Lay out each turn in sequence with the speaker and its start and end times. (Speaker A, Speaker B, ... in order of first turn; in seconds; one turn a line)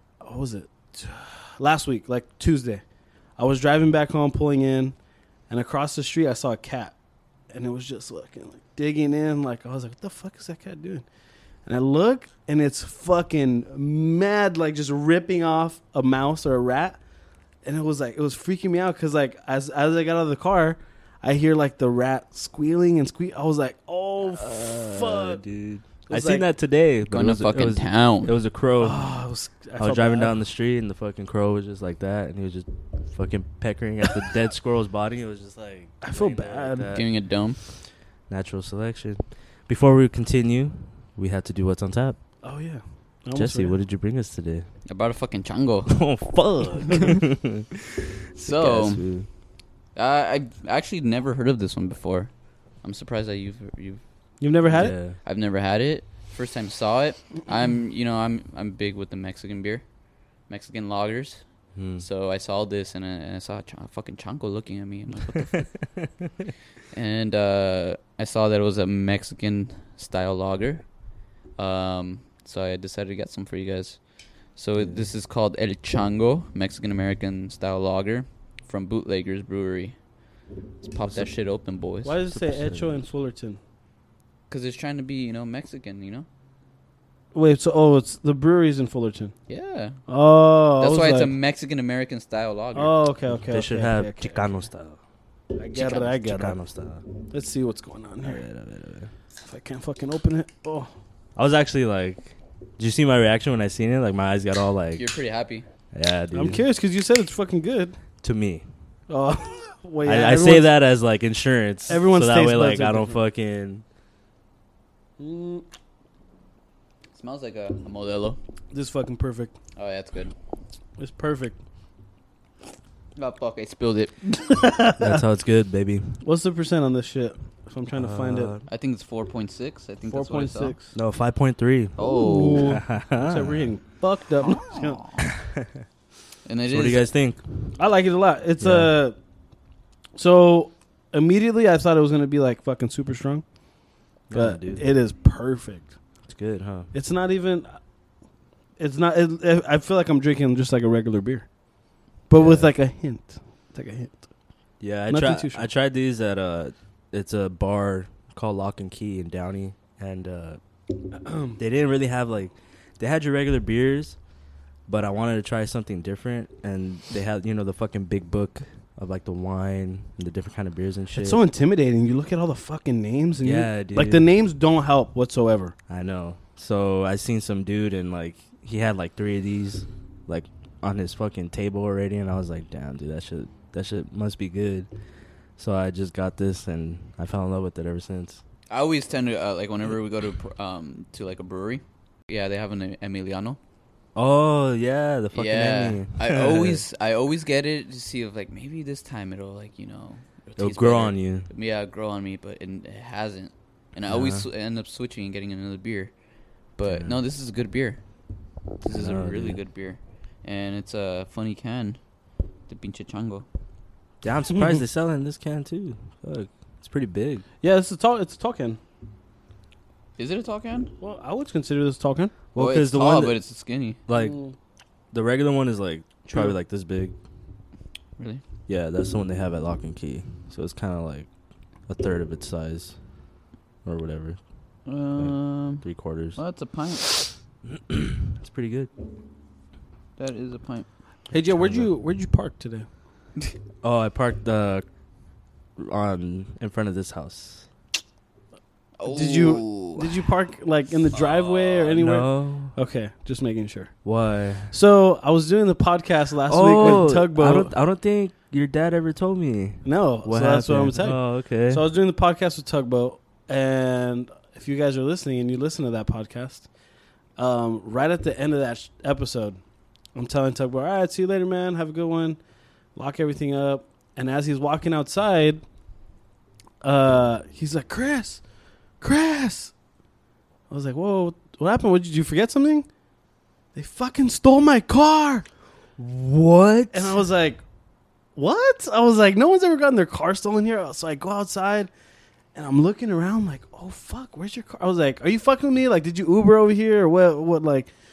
Speaker A: 0.2-2.8
Speaker A: 3.4-5.0
Speaker A: 5.5-6.9
Speaker A: 7.5-11.1
Speaker A: 11.7-17.0
Speaker A: 17.6-25.4
Speaker B: 24.2-29.1
Speaker A: 26.1-26.5
Speaker C: 27.1-28.4
Speaker A: 28.8-30.3
Speaker B: 29.8-37.0
Speaker A: 36.0-37.0
Speaker C: 36.9-37.6
Speaker B: 38.3-42.2
Speaker A: 42.4-43.8
Speaker B: 43.4-44.7
Speaker C: 44.9-46.0
Speaker B: 45.9-47.7
Speaker B: 48.4-49.3
Speaker C: 48.5-49.0
Speaker C: 50.0-54.0
Speaker A: 54.4-55.0
Speaker B: 54.7-55.2
Speaker C: 55.2-59.8
Speaker C: 60.5-65.9
Speaker B: 61.8-62.0
Speaker C: 66.9-70.9
Speaker C: 71.6-80.0
Speaker C: 80.8-82.2
Speaker B: 81.0-81.3
Speaker A: 82.0-83.6
Speaker B: 82.3-83.1
Speaker C: 84.5-86.3
Speaker A: 87.3-89.3
Speaker C: 89.5-90.0
Speaker A: 90.1-91.3
Speaker C: 90.8-92.9
Speaker A: 92.8-94.5
Speaker B: 93.3-95.0
Speaker A: 95.6-96.6
Speaker C: 95.7-96.2
Speaker B: 96.2-97.0
Speaker A: 97.3-98.4
Speaker B: 98.2-99.1
Speaker A: 99.5-100.9
Speaker B: 101.4-105.0
Speaker C: 105.0-105.7
Speaker B: 105.9-106.6
Speaker A: 106.3-108.0
Speaker B: 108.2-108.6
Speaker A: 109.1-110.7
Speaker B: 110.0-113.8
Speaker A: 111.9-113.2
Speaker A: 115.2-115.7
Speaker C: 117.2-118.4
Speaker A: 118.7-119.5
Speaker C: 119.8-120.3
Speaker A: 121.0-121.6
Speaker C: 123.2-124.5
Speaker A: 124.6-125.0
Speaker B: 125.0-126.2
Speaker A: 126.2-128.6
Speaker B: 128.0-128.7
Speaker C: 128.7-130.8
Speaker A: 130.1-130.9
Speaker B: 130.9-133.7
Speaker C: 132.0-132.8
Speaker A: 132.0-135.0
Speaker C: 134.4-135.2
Speaker C: 136.4-137.1
Speaker B: 136.7-137.7
Speaker A: 137.8-139.2
Speaker B: 138.6-138.9
Speaker A: 140.2-143.4
Speaker B: 144.3-144.8
Speaker A: 144.3-145.9
Speaker B: 146.3-146.9
Speaker A: 146.9-147.8
Speaker A: 148.8-151.5
Speaker A: 152.3-154.2
Speaker B: 152.4-152.7
Speaker B: 154.8-160.6
Speaker A: 155.1-155.7
Speaker A: 161.2-161.6
Speaker B: 161.6-164.2
Speaker B: 164.9-171.4
Speaker A: 171.2-175.7
Speaker B: 173.4-174.2
Speaker B: 175.9-184.9
Speaker B: 185.6-188.4
Speaker C: 188.7-193.6
Speaker B: 194.2-196.8
Speaker C: 195.3-206.1
Speaker B: 200.6-201.5
Speaker B: 204.1-204.5
Speaker C: 206.8-208.0
Speaker B: 206.8-207.1
Speaker C: 208.8-212.0
Speaker B: 208.8-209.6
Speaker C: 212.7-213.4
Speaker B: 214.2-217.4
Speaker A: 217.6-218.8
Speaker C: 220.2-220.9
Speaker A: 221.0-222.4
Speaker B: 222.6-223.4
Speaker C: 222.6-224.0
Speaker B: 224.1-224.4
Speaker A: 224.1-224.5
Speaker B: 225.1-227.2
Speaker C: 228.2-228.4
Speaker B: 228.7-231.3
Speaker B: 231.9-233.0
Speaker B: 233.8-234.4
Speaker C: 234.9-235.8
Speaker B: 235.2-236.4
Speaker C: 236.4-237.1
Speaker B: 237.7-238.9
Speaker C: 240.2-240.9
Speaker A: 241.3-242.9
Speaker B: 241.5-241.9
Speaker B: 243.8-244.8
Speaker B: 245.8-247.7
Speaker C: 249.0-250.2
Speaker A: 249.1-254.1
Speaker C: 251.1-251.9
Speaker B: 251.9-252.7
Speaker B: 254.1-254.7
Speaker A: 254.7-257.7
Speaker B: 256.5-261.8
Speaker A: 259.8-266.7
Speaker A: 267.4-269.6
Speaker A: 270.1-272.4
Speaker A: 272.9-275.6
Speaker A: 276.8-278.4
Speaker A: 279.0-279.7
Speaker A: 280.7-282.9
Speaker A: 283.8-285.4
Speaker B: 286.0-287.1
Speaker A: 286.9-287.6
Speaker A: 288.4-291.9
Speaker A: 292.6-297.9